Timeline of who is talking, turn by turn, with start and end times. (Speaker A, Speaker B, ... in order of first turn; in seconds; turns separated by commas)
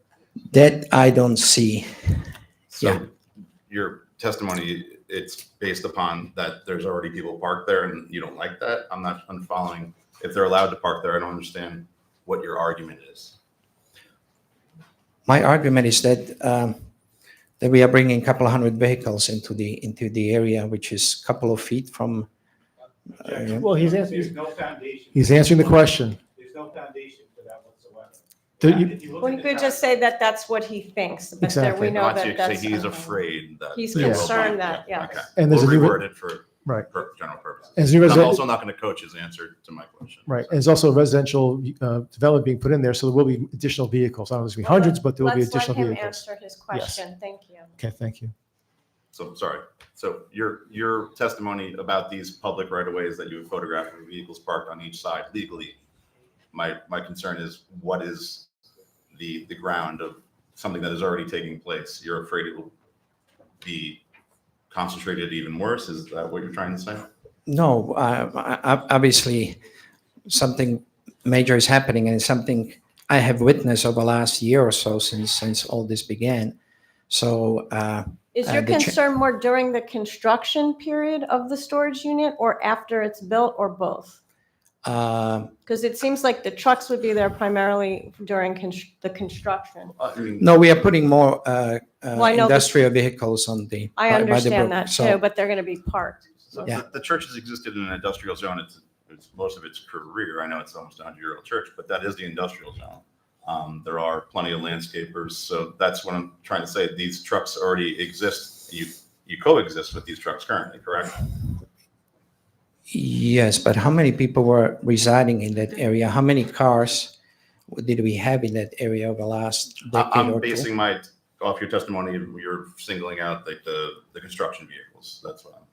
Speaker A: 0.5-2.3, Speaker B: 2.7-3.1, Speaker B: 3.7-13.3, Speaker A: 15.3-16.8, Speaker A: 17.6-22.3, Speaker A: 23.2-23.7, Speaker C: 23.2-29.6, Speaker D: 23.5-24.4, Speaker D: 25.1-26.2, Speaker D: 28.6-28.9, Speaker E: 29.2-35.3, Speaker D: 31.4-31.9, Speaker B: 31.9-40.6, Speaker D: 34.0-34.4, Speaker D: 35.4-36.1, Speaker D: 37.8-38.4, Speaker D: 40.3-46.2, Speaker E: 44.6-47.7, Speaker D: 46.7-47.0, Speaker D: 47.8-48.3, Speaker B: 49.1-55.8, Speaker B: 56.5-58.5, Speaker B: 59.1-62.7, Speaker B: 63.6-64.0, Speaker B: 64.7-67.1, Speaker A: 67.5-69.6, Speaker A: 70.3-76.5, Speaker A: 77.1-79.0, Speaker E: 78.3-84.2, Speaker A: 84.8-85.5, Speaker E: 85.7-89.9, Speaker B: 90.0-91.0, Speaker A: 90.4-95.2, Speaker E: 92.2-92.7, Speaker E: 94.0-96.4, Speaker B: 96.5-111.4, Speaker A: 112.9-117.1, Speaker A: 117.7-120.7, Speaker B: 119.9-125.6